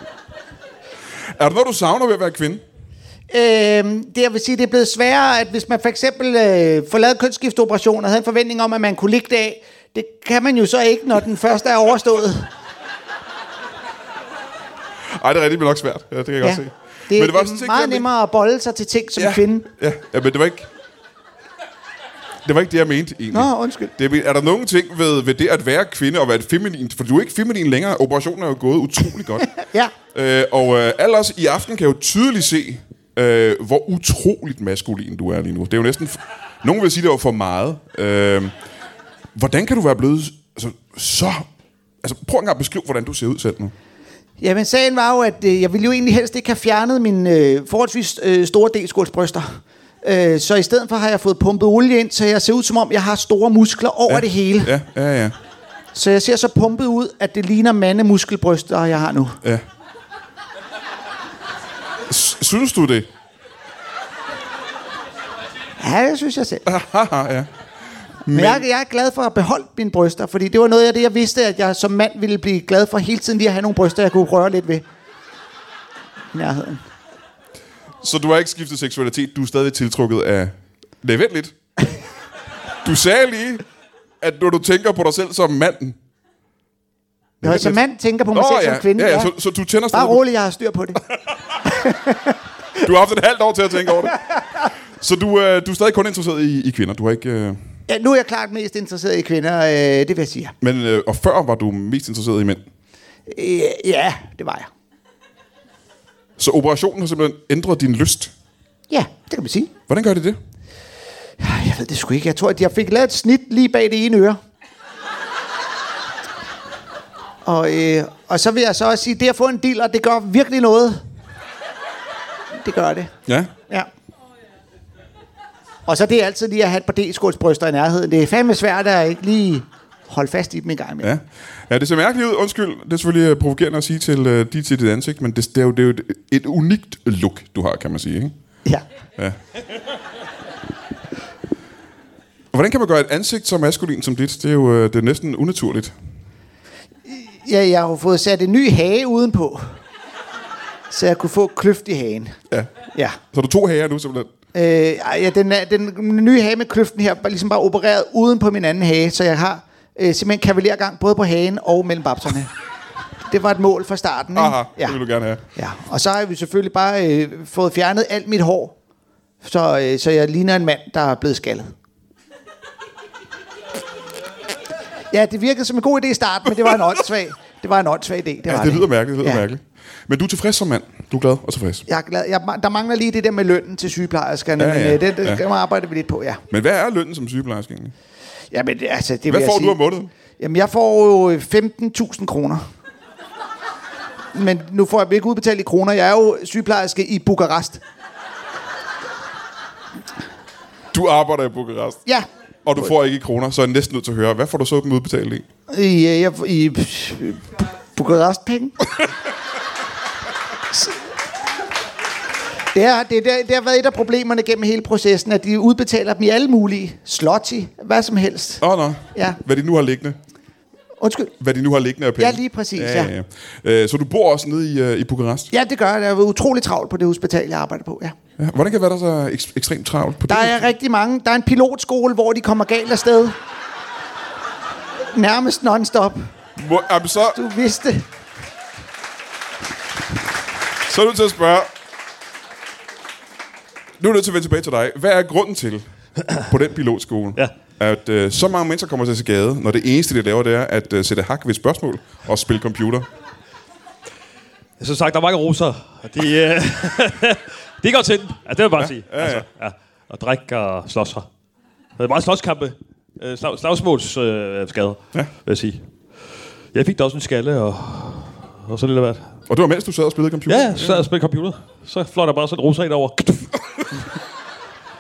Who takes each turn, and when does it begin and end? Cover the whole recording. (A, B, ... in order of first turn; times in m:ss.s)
0:01.3-0:02.6 A
0:03.3-0:12.5 B
0:15.1-0:18.0 A
0:16.4-0:19.7 B
0:19.2-0:20.7 A
0:22.4-0:29.6 A
0:23.3-0:23.9 B
0:29.4-0:29.9 B
0:30.1-0:38.5 A
0:39.3-0:41.4 A
0:42.0-0:43.7 A
0:44.4-0:54.7 B
0:54.1-0:55.3 A
0:55.9-0:59.4 B
1:02.1-1:03.1 A
1:05.8-1:06.6 B
1:06.6-1:07.5 A
1:08.2-1:08.6 A
1:08.3-1:14.8 B
1:16.3-1:16.8 B
1:18.0-1:21.5 A
1:22.8-1:23.6 A
1:24.2-1:26.0 A
1:27.4-1:27.8 A
1:27.4-1:29.3 B
1:28.3-1:30.2 A
1:29.9-1:31.0 B
1:31.6-1:32.4 B
1:32.8-1:34.2 A
1:34.0-1:34.4 B
1:35.0-1:37.6 A
1:37.9-1:40.5 B
1:40.6-1:42.6 A
1:43.3-1:44.7 B
1:46.4-1:48.3 A
1:48.9-1:49.7 B
1:49.9-1:50.4 A
1:51.4-1:54.4 B
1:57.4-2:01.0 B
2:02.5-2:03.1 B
2:03.3-2:03.5 A
2:05.8-2:11.1 B
2:11.0-2:18.3 A
2:22.5-2:25.9 A
2:27.0-2:29.8 B
2:30.9-2:32.4 B
2:33.3-2:34.3 A
2:34.5-2:42.5 B
2:43.2-2:45.0 B
2:44.3-2:45.4 A
2:45.6-2:48.8 B
2:49.4-2:51.7 B
2:55.1-2:59.4 B
2:58.5-3:01.8 A
3:01.9-3:06.4 B
3:04.6-3:05.4 A
3:06.5-3:07.9 A
3:08.5-3:09.8 B
3:09.3-3:10.1 A
3:10.3-3:12.6 B
3:14.3-3:17.8 B
3:20.9-3:22.0 A
3:22.6-3:25.4 A
3:25.7-3:28.8 B
3:30.7-3:31.0 B
3:32.7-3:38.6 B
3:38.6-3:40.2 A
3:39.1-3:39.4 B
3:41.0-3:41.3 B
3:41.4-3:45.5 A
3:42.2-3:43.1 B
3:45.5-3:48.1 B
3:48.4-3:50.7 A
3:50.3-3:53.4 B
3:55.1-3:56.3 B
3:56.6-3:57.4 A
3:57.3-3:58.1 B
4:00.8-4:01.7 A
4:04.0-4:13.1 A
4:14.8-4:21.3 C
4:18.8-4:19.4 A
4:22.0-4:25.9 C
4:26.7-4:29.4 C
4:29.5-4:31.0 A
4:30.5-4:34.0 C